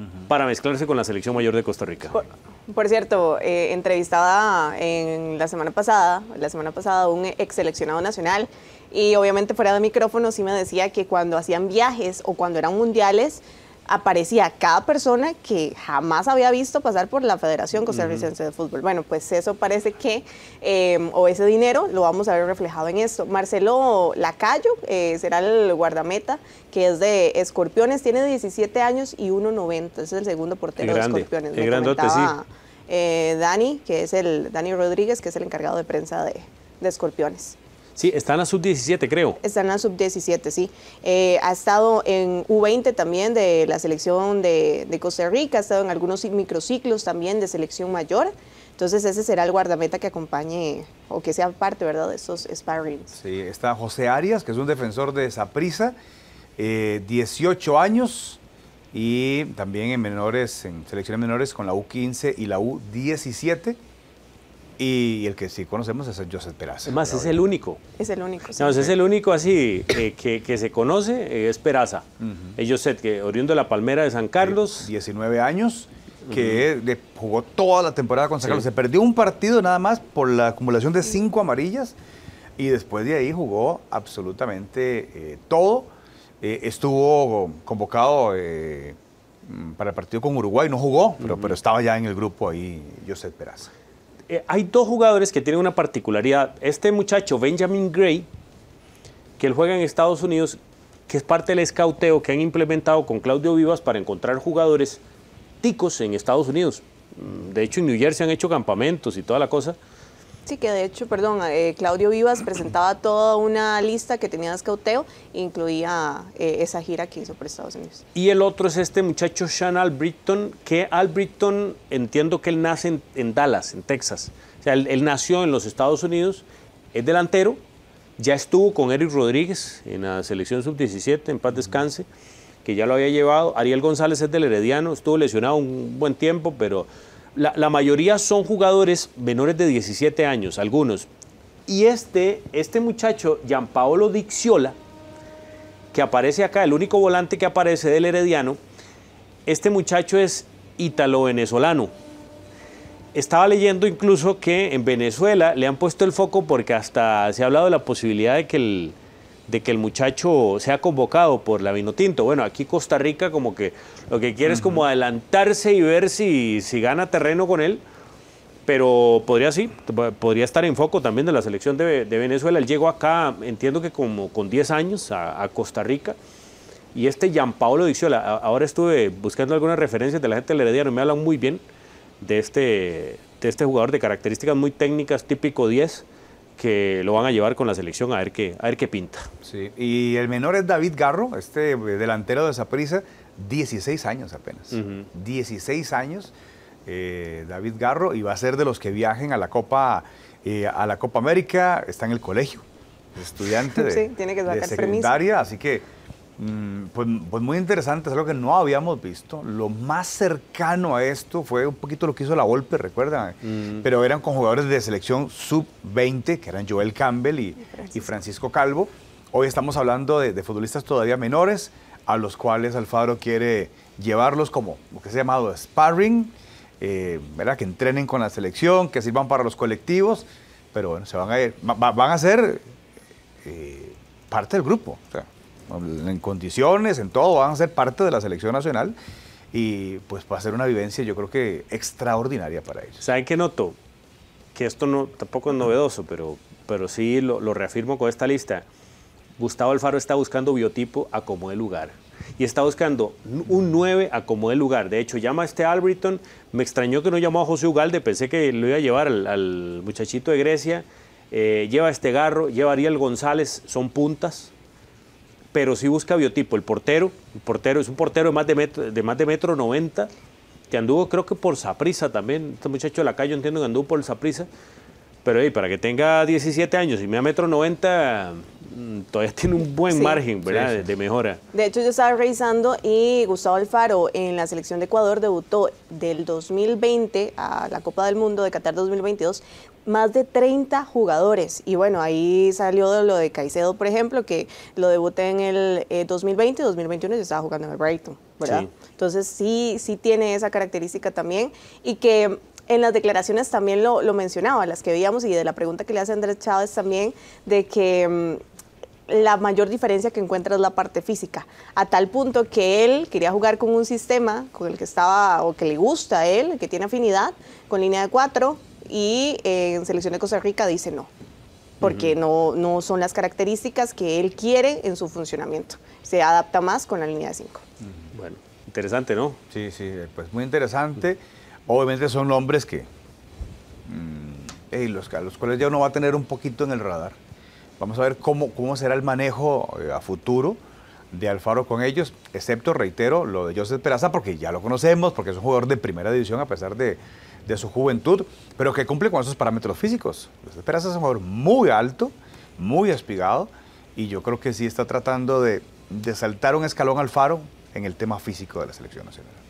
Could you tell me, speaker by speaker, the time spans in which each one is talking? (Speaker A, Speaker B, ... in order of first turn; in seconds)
Speaker A: 0.3-2.2, 17.9-18.3, 30.8-32.4, 38.0-39.4, 66.9-67.8, 68.6-74.9, 76.3-76.6, 91.2-91.5, 94.3-98.3, 99.4-105.0, 105.6-109.8, 118.2-127.6, 128.2-132.1, 132.6-141.1, 141.7-144.8, 145.9-148.6, 149.5-151.9, 153.1-167.8, 168.7-176.2, 176.9-181.6, 182.2-186.1, 186.6-189.3, 194.7-195.1, 213.6-213.8, 243.0-243.8, 244.6-248.7, 249.4-264.5, 265.5-270.1, 270.7-274.5, 275.2-281.4, 298.4-298.7, 321.8-322.1, 328.1-329.4
Speaker B: 2.1-37.6, 39.4-53.1, 68.0-68.9, 110.5-118.0, 203.7-205.2, 217.7-218.1, 279.9-280.2, 281.5-308.4, 309.1-321.1, 321.8-327.6
Speaker C: 53.1-56.0, 56.6-58.4, 58.9-63.8, 64.8-67.5, 72.2-72.6, 74.4-82.0, 82.6-93.7, 164.4-164.8, 189.4-196.3, 196.9-202.7, 203.2-205.8, 206.4-232.6, 233.4-239.0, 239.5-243.0, 280.5-280.9, 329.5-332.9, 333.9-337.2, 337.8-340.6, 341.1-359.4